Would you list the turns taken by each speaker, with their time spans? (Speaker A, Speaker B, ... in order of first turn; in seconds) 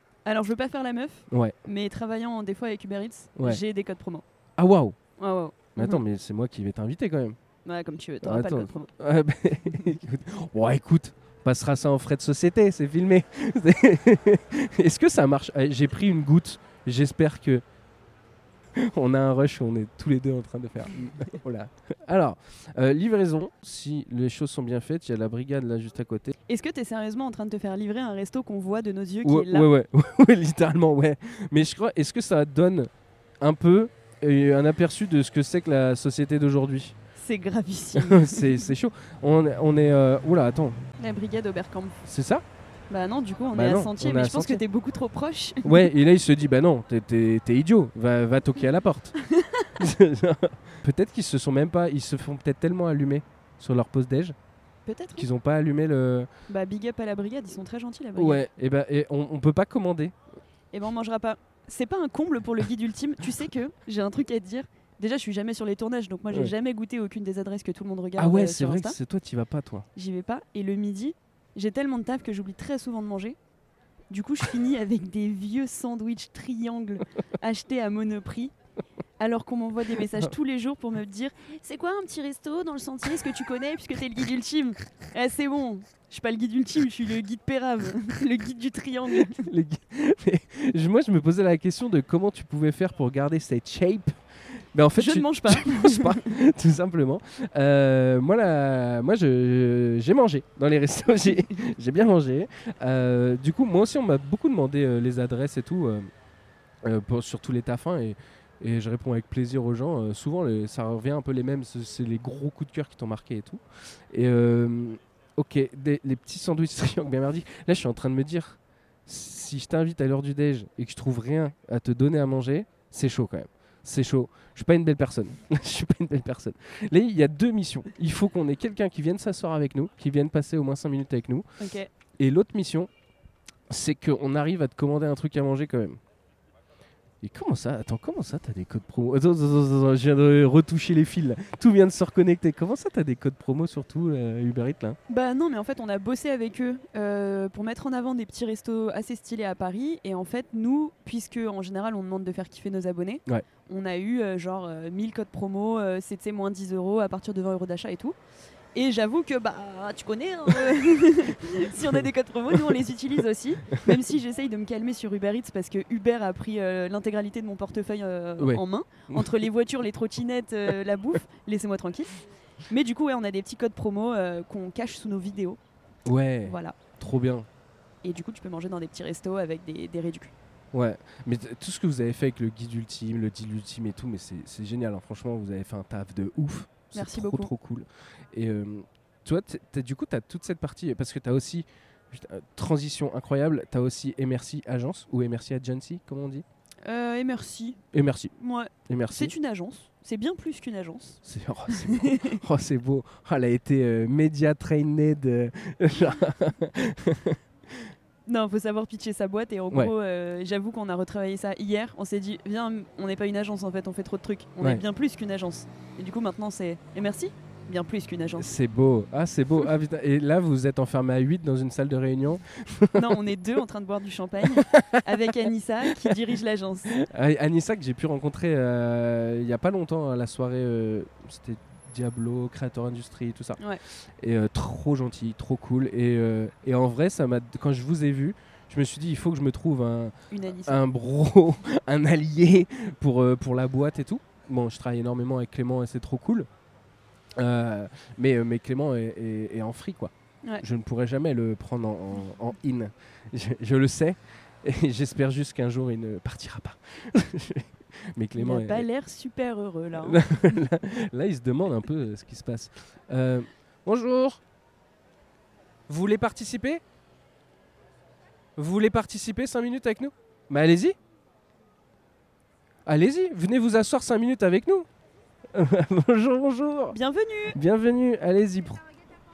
Speaker A: 0.2-4.2, 5.2-6.0, 7.6-8.9, 26.5-29.7, 37.1-38.7, 41.0-42.0, 42.9-45.9, 49.2-49.7, 54.9-55.3, 56.5-58.4, 60.7-69.0, 69.9-73.4, 74.1-78.5, 79.2-89.4, 95.0-96.2, 131.6-131.9, 145.1-158.1, 158.7-172.1, 172.7-175.6, 176.4-176.8, 178.0-180.3, 186.9-187.5, 196.8-197.8, 198.4-201.2, 201.7-202.4, 208.3-218.5, 222.9-226.9, 240.3-240.8, 258.4-260.2, 276.9-277.6
Speaker B: 1.3-1.5, 3.4-3.6, 4.6-5.0, 5.8-7.4, 8.2-17.6, 18.7-26.4, 29.2-32.9, 33.4-36.9, 37.9-40.8, 42.0-42.4, 43.5-44.6, 45.6-49.1, 49.8-54.3, 55.1-56.3, 58.1-60.1, 68.2-69.9, 89.3-94.1, 94.7-106.1, 106.8-113.6, 114.1-131.4, 132.2-132.9, 133.7-136.0, 137.2-145.0, 168.4-169.2, 176.1-177.5, 180.7-196.4, 197.9-198.3, 198.9-199.3, 201.2-207.9, 218.4-223.2, 224.5-225.1, 226.9-233.6, 234.2-246.5, 247.3-258.9, 260.0-264.4, 265.9-266.8, 268.6-270.9, 272.9-274.9, 275.5-277.0, 277.5-278.8